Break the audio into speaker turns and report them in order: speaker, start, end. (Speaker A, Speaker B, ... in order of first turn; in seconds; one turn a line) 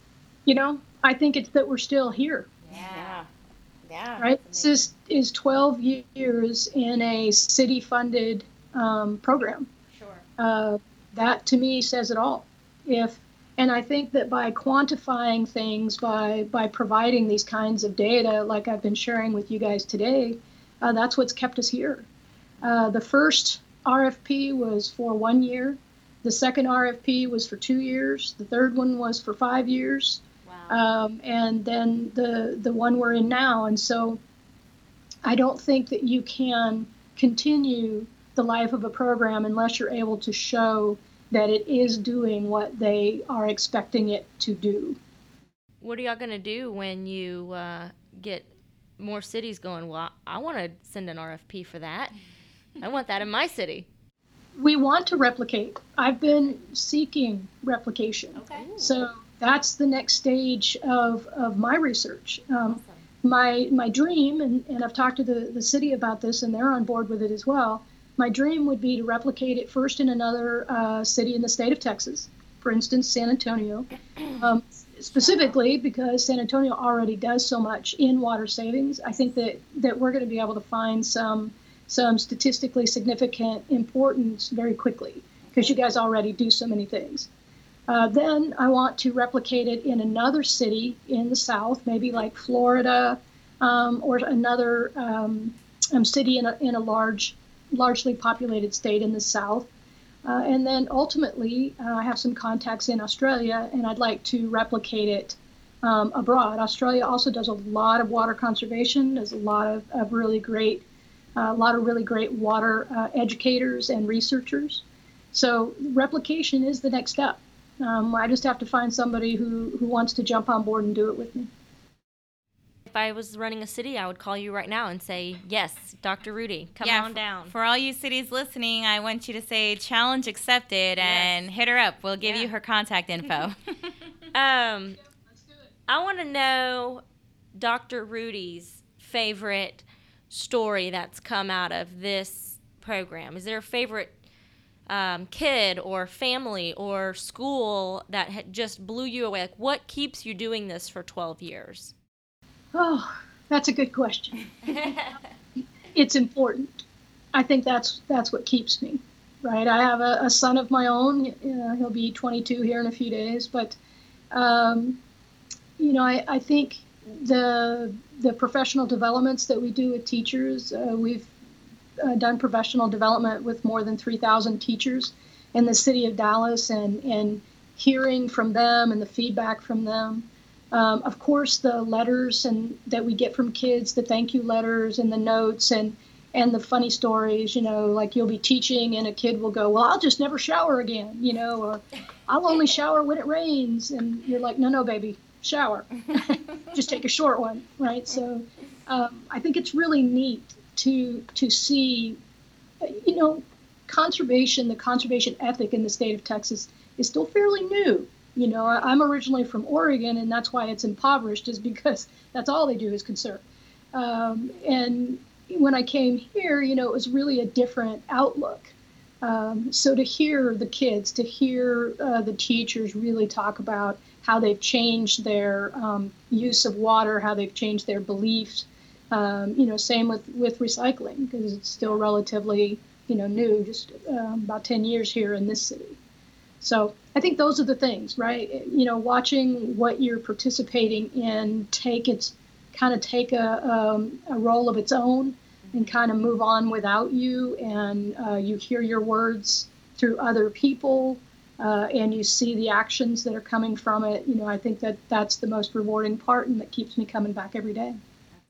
Speaker A: 0.5-2.5
Speaker B: 2.7-3.3
Speaker C: 2.7-3.1
Speaker B: 3.9-4.8
Speaker A: 4.2-9.7
Speaker B: 9.9-10.2
Speaker A: 10.4-22.1
Speaker A: 22.6-34.2
Speaker C: 30.5-30.8
Speaker A: 35.2-45.0
Speaker C: 45.8-48.5
Speaker C: 49.0-52.1
Speaker C: 52.8-53.9
Speaker A: 54.6-87.3
Speaker B: 58.4-58.7
Speaker C: 58.5-58.9
Speaker A: 87.9-99.7
Speaker A: 100.2-110.8
Speaker A: 111.4-121.5
Speaker C: 122.9-127.5
Speaker B: 126.8-133.9
Speaker C: 131.0-131.3
Speaker C: 132.2-132.5
Speaker C: 134.3-135.0
Speaker C: 135.9-137.0
Speaker C: 137.6-144.2
Speaker C: 144.9-151.9
Speaker A: 152.7-154.7
Speaker C: 154.7-155.1
Speaker A: 155.9-163.8
Speaker A: 164.3-165.0
Speaker A: 165.8-171.3
Speaker A: 172.0-202.2
Speaker A: 202.8-213.4
Speaker A: 213.9-236.0
Speaker A: 236.6-258.0